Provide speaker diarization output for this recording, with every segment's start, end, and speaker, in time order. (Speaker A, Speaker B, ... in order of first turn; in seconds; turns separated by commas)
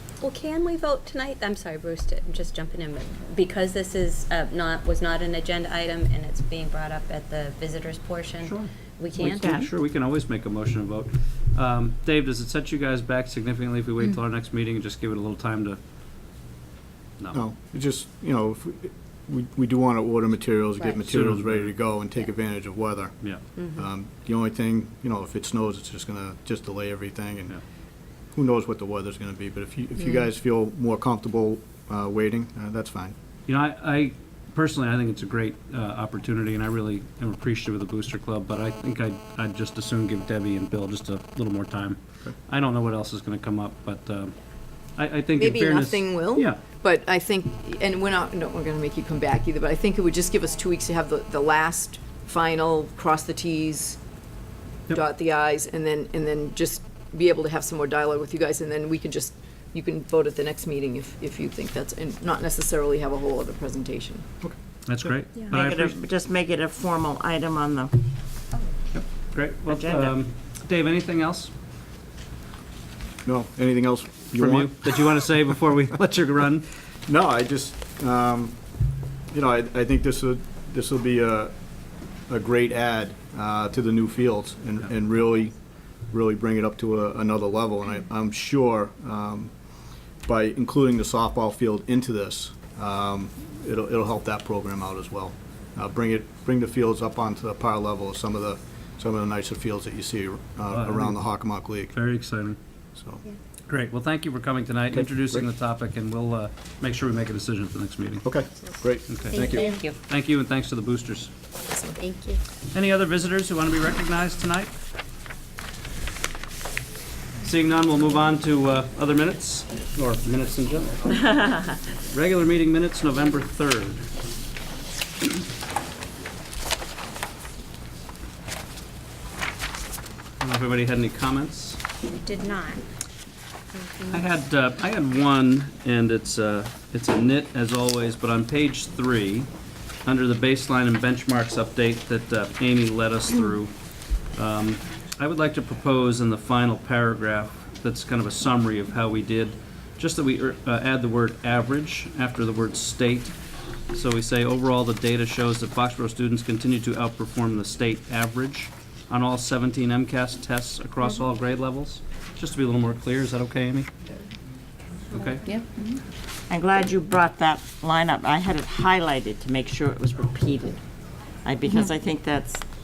Speaker A: 0.2-9.6, Speaker B: 8.4-15.8, Speaker C: 9.3-9.7, Speaker D: 17.3-27.6, Speaker A: 20.8-21.1, Speaker B: 21.1-21.8, Speaker D: 28.3-33.1, Speaker B: 33.5-44.4, Speaker B: 44.9-46.6, Speaker E: 45.4-54.0, Speaker E: 54.9-64.3, Speaker B: 64.8-65.9, Speaker C: 65.5-68.0, Speaker A: 68.5-68.8, Speaker B: 68.9-71.5, Speaker C: 69.7-70.2, Speaker D: 73.2-75.3, Speaker B: 74.3-76.7, Speaker D: 77.0-78.6, Speaker D: 79.3-81.5, Speaker D: 82.3-85.5, Speaker D: 86.1-89.5, Speaker D: 90.2-102.0, Speaker B: 100.7-102.6, Speaker D: 102.9-103.2, Speaker B: 103.7-108.2, Speaker D: 104.9-105.5, Speaker D: 108.2-109.6, Speaker B: 109.1-111.3, Speaker A: 109.3-110.0, Speaker E: 111.7-112.0, Speaker A: 112.0-112.4, Speaker B: 112.7-114.7, Speaker B: 117.4-121.4, Speaker B: 122.1-124.0, Speaker B: 130.4-131.8, Speaker A: 132.2-132.8, Speaker A: 133.7-134.2, Speaker B: 134.1-139.5, Speaker B: 140.0-143.7, Speaker B: 144.3-153.3, Speaker B: 153.9-163.9, Speaker B: 165.1-165.4, Speaker C: 166.5-170.8, Speaker C: 171.4-172.7